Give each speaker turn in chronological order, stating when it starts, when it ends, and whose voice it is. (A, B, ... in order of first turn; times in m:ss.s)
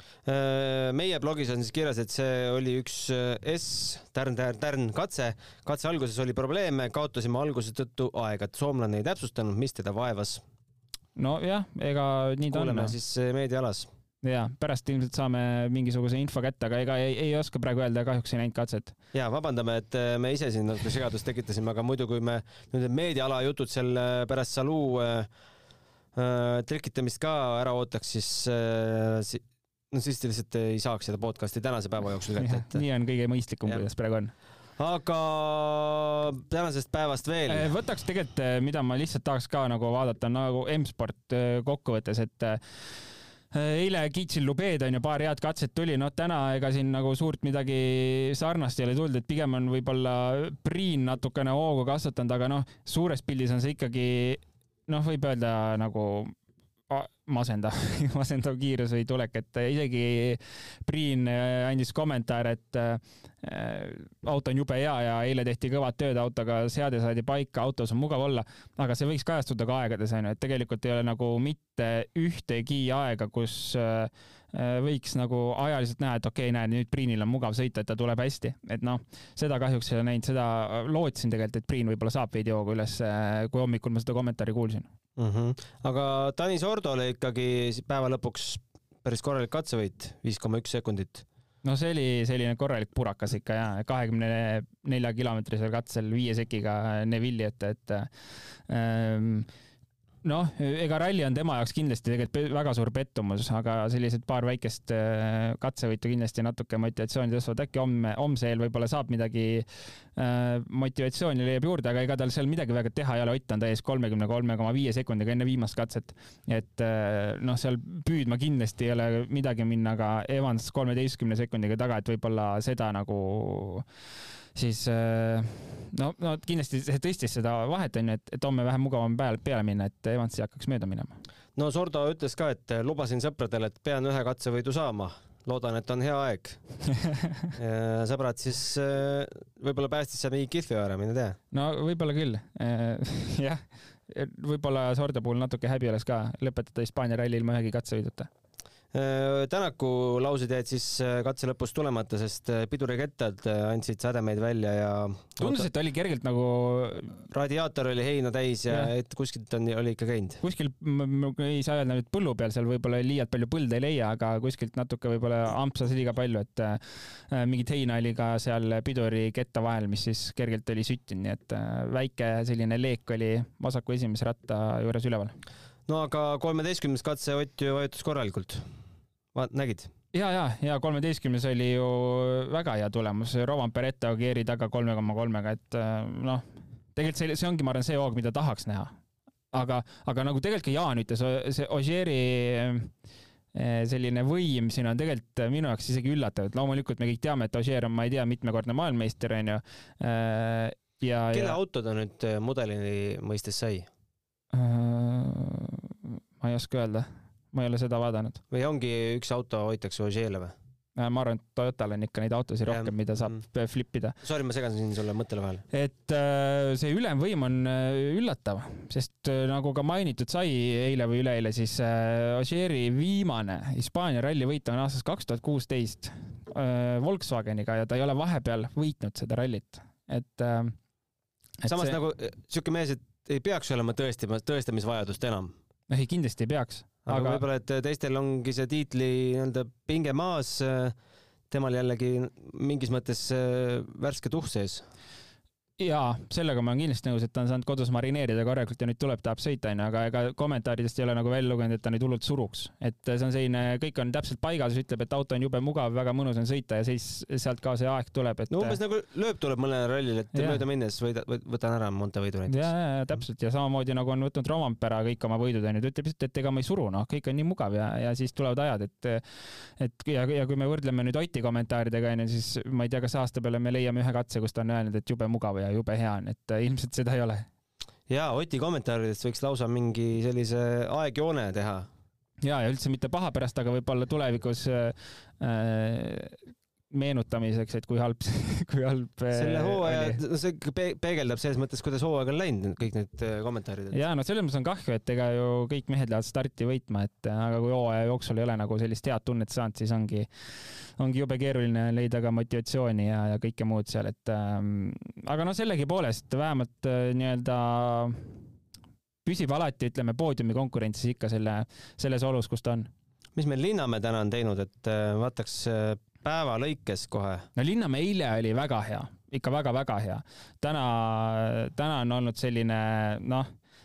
0:00.2-0:10.4 A
0:11.2-0:12.9 B
0:12.5-0:13.9 A
0:14.2-0:18.9 B
0:19.1-0:25.3 A
0:26.1-0:32.8 A
0:32.4-0:34.3 B
0:34.8-0:37.7 A
0:37.5-0:56.3 B
0:56.9-1:24.9 B
1:25.2-1:31.2 A
1:31.6-1:39.5 B
1:40.2-2:03.8 B
2:04.5-2:11.2 B
2:11.6-2:16.6 A
2:17.0-2:17.5 B
2:17.6-2:21.4 A
2:21.5-2:28.3 B
2:28.9-2:35.7 A
2:35.4-2:37.2 B
2:37.3-2:40.4 A
2:40.4-2:55.3 B
2:55.9-2:58.6 A
2:59.3-2:59.9 A
3:00.1-3:08.9 B
3:09.5-3:12.9 B
3:13.5-3:21.6 B
3:21.3-3:23.9 A
3:24.5-3:28.4 B
3:28.5-3:30.5 A
3:31.0-3:34.2 B
3:32.7-3:33.4 A
3:34.2-3:35.6 A
3:35.7-3:50.8 B
3:51.6-3:52.0 B
3:51.6-3:55.5 A
3:55.9-3:57.4 B
3:57.0-4:00.9 A
4:01.5-4:04.8 A
4:05.8-4:18.8 B
4:18.5-4:22.7 A
4:20.3-4:20.6 B
4:22.5-4:37.4 B
4:38.1-4:41.9 A
4:42.4-4:46.4 B
4:46.9-4:50.2 B
4:49.3-4:54.0 A
4:53.9-5:00.3 B
5:01.0-5:08.4 B
5:09.2-5:12.9 B
5:13.4-5:17.5 A
5:17.6-5:23.5 B